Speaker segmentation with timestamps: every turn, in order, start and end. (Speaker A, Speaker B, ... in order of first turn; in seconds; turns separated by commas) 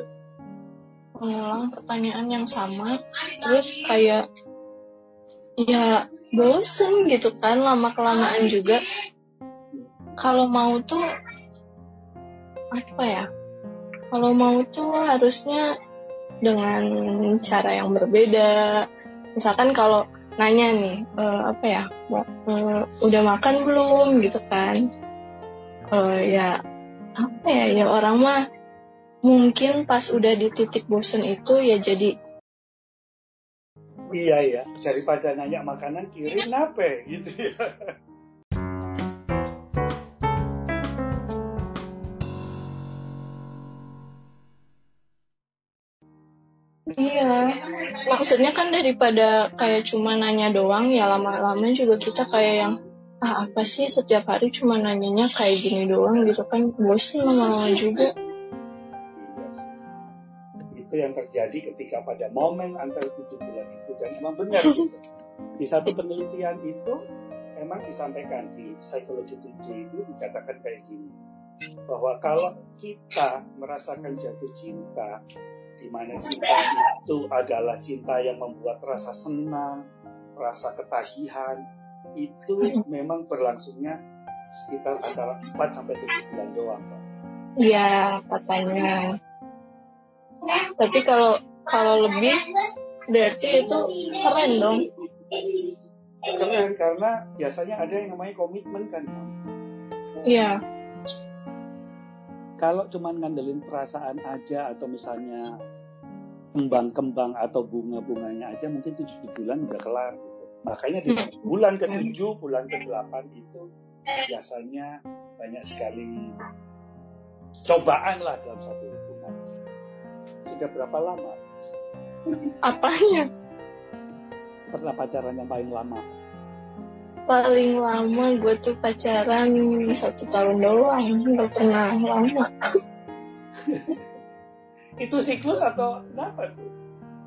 Speaker A: 1.2-4.2, Speaker A: 5.6-8.8, Speaker A: 10.2-11.0, Speaker A: 12.8-13.2, Speaker A: 14.1-15.6, Speaker A: 16.4-16.8, Speaker A: 17.4-18.5, Speaker A: 19.4-24.8, Speaker A: 25.9-26.5, Speaker A: 27.2-28.3, Speaker A: 29.3-32.1, Speaker B: 34.1-37.7, Speaker A: 47.0-47.4, Speaker A: 48.1-52.7, Speaker A: 53.2-58.1, Speaker B: 59.2-59.7, Speaker B: 60.7-65.0, Speaker B: 65.6-67.0, Speaker B: 67.6-71.1, Speaker B: 71.9-75.1, Speaker B: 75.8-79.8, Speaker A: 76.3-76.6, Speaker B: 80.4-81.6, Speaker B: 82.2-84.0, Speaker B: 84.6-87.0, Speaker A: 87.6-89.0, Speaker A: 90.8-92.3, Speaker A: 93.1-94.8, Speaker A: 95.4-95.7, Speaker B: 96.3-99.3, Speaker A: 100.2-100.5, Speaker B: 102.6-105.5, Speaker B: 106.6-113.6, Speaker A: 111.1-112.1, Speaker B: 114.3-114.9, Speaker B: 115.4-116.1, Speaker B: 117.7-119.3, Speaker B: 120.5-121.4, Speaker A: 122.7-123.2, Speaker B: 124.7-126.0, Speaker A: 127.3-132.5, Speaker B: 135.0-136.7